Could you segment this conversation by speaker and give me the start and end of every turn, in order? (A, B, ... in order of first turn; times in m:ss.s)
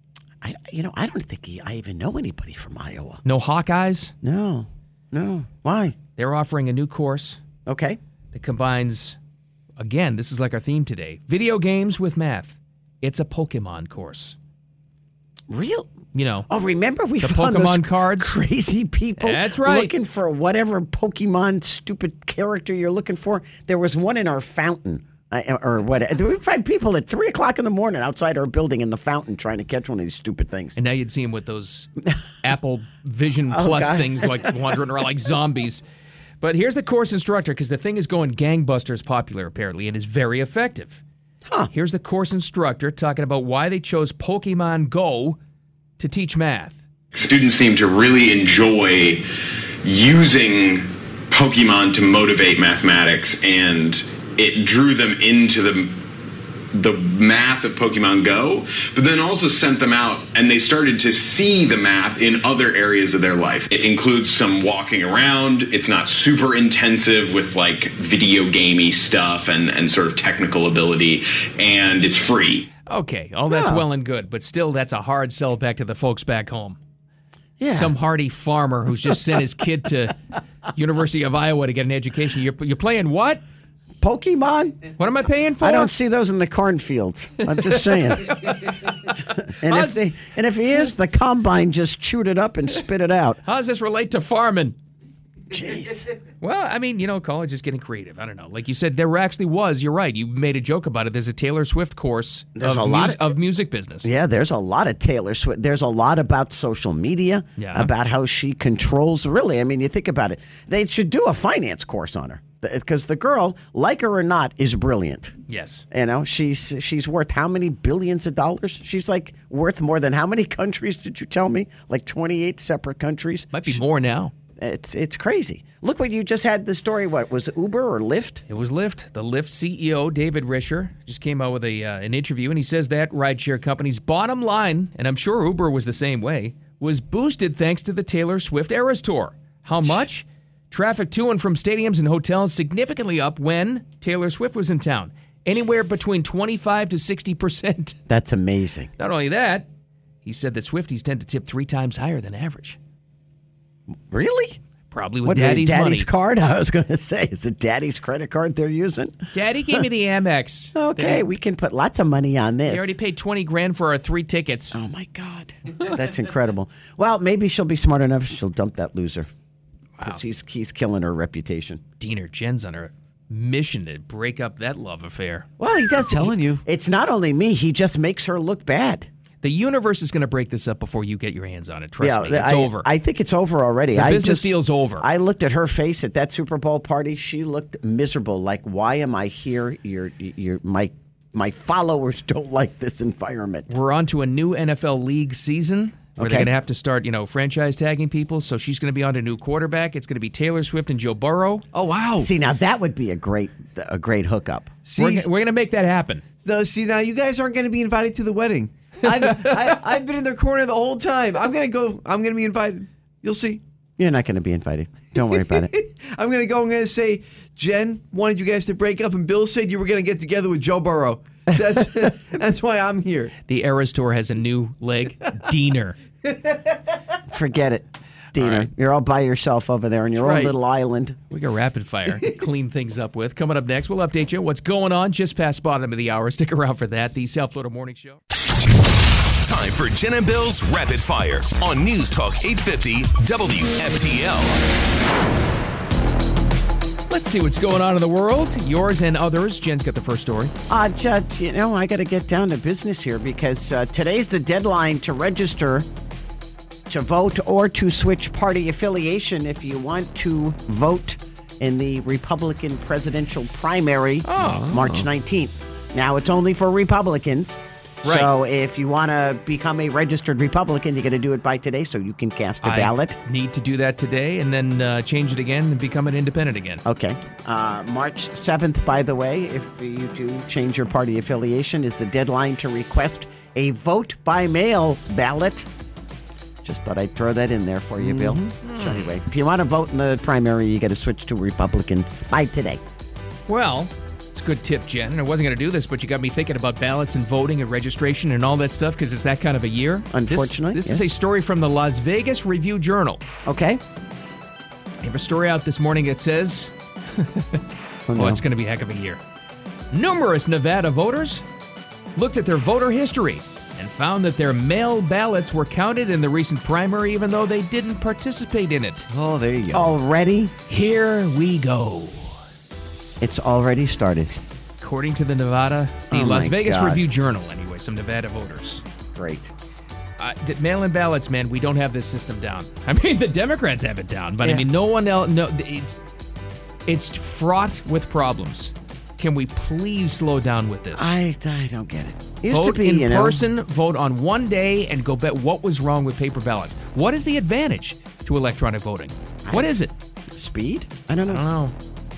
0:00.4-0:03.2 A
0:03.2-0:04.1 B
0:04.2-0:06.0 A
0:06.2-0:07.4 B
0:07.6-0:08.0 A
0:08.3-0:09.2 B
0:09.8-0:14.4 B
0:15.5-0:15.9 A
0:16.1-0:16.5 B
0:16.5-0:30.8 A
0:17.2-0:18.4 B
0:19.2-0:19.9 B
0:30.8-0:31.9 B
0:32.4-0:35.8 B
0:33.5-0:34.6 A
0:36.4-0:41.0 B
0:41.7-0:45.4 B
0:46.0-0:46.8 B
0:47.1-0:49.2 C
0:49.8-0:56.0 C
0:56.7-1:12.7 C
1:12.9-1:16.8 B
1:13.5-1:13.8 A
1:17.6-1:17.9 A
1:17.7-1:20.2 B
1:20.7-1:23.4 B
1:24.0-1:24.9 A
1:25.0-1:25.9 B
1:25.6-1:33.4 A
1:28.3-1:28.7 B
1:29.6-1:30.0 B
1:33.4-1:34.8 B
1:35.5-1:36.1 A
1:36.4-1:44.1 B
1:42.6-1:43.3 A
1:44.0-1:55.4 A
1:47.6-1:47.9 B
1:55.5-1:55.8 B
1:55.9-2:03.8 A
2:03.5-2:04.3 B
2:04.6-2:08.4 A
2:08.5-2:28.0 B
2:28.1-2:28.9 A
2:29.0-2:29.7 B
2:30.2-2:32.8 B
2:34.1-2:34.6 A
2:34.9-2:36.1 B
2:35.2-2:39.8 A
2:39.3-2:41.2 B
2:40.7-2:43.0 A
2:42.6-2:44.8 B
2:44.7-2:49.3 A
2:50.0-2:51.8 A
2:52.0-2:55.5 B
2:55.6-2:59.1 A
2:56.0-2:56.6 D
2:59.4-3:02.9 B
3:02.0-3:13.7 A
3:03.9-3:05.0 B
3:13.7-3:21.6 B
3:16.2-3:16.5 A
3:21.7-3:22.3 D
3:22.2-3:24.8 A
3:24.8-3:25.3 D
3:25.0-3:26.2 B
3:26.4-3:33.6 D
3:34.0-3:35.7 A
3:35.4-3:43.3 D
3:43.5-3:46.0 B
3:47.3-3:51.2 A
3:48.4-3:48.7 B
3:50.2-3:50.5 D
3:51.3-3:58.2 B
3:59.4-4:04.6 E
4:07.1-4:10.5 B
4:10.7-4:15.9 A
4:16.9-4:33.2 A
4:24.2-4:24.7 B
4:24.4-4:25.1 D
4:28.0-4:28.3 B
4:32.6-4:36.8 B
4:36.8-4:45.7 A
4:46.6-4:52.8 A
4:48.0-4:48.5 D
4:48.6-4:49.1 B
4:53.5-5:03.2 B
5:00.1-5:01.1 A
5:03.4-5:03.8 A
5:05.0-5:07.6 B
5:08.1-5:08.4 A
5:08.1-5:09.2 B
5:09.9-5:11.4 B
5:12.2-5:19.1 B
5:19.1-5:19.9 D
5:19.7-5:20.5 A
5:20.7-5:22.4 B
5:23.2-5:24.4 A
5:24.8-5:28.8 B
5:26.1-5:27.0 A
5:29.1-5:29.5 A
5:30.2-5:36.0 B
5:36.9-5:41.1 B
5:40.9-5:43.4 A
5:42.5-5:49.9 B
5:49.4-5:49.7 A
5:50.3-5:51.4 A
5:51.3-5:51.7 B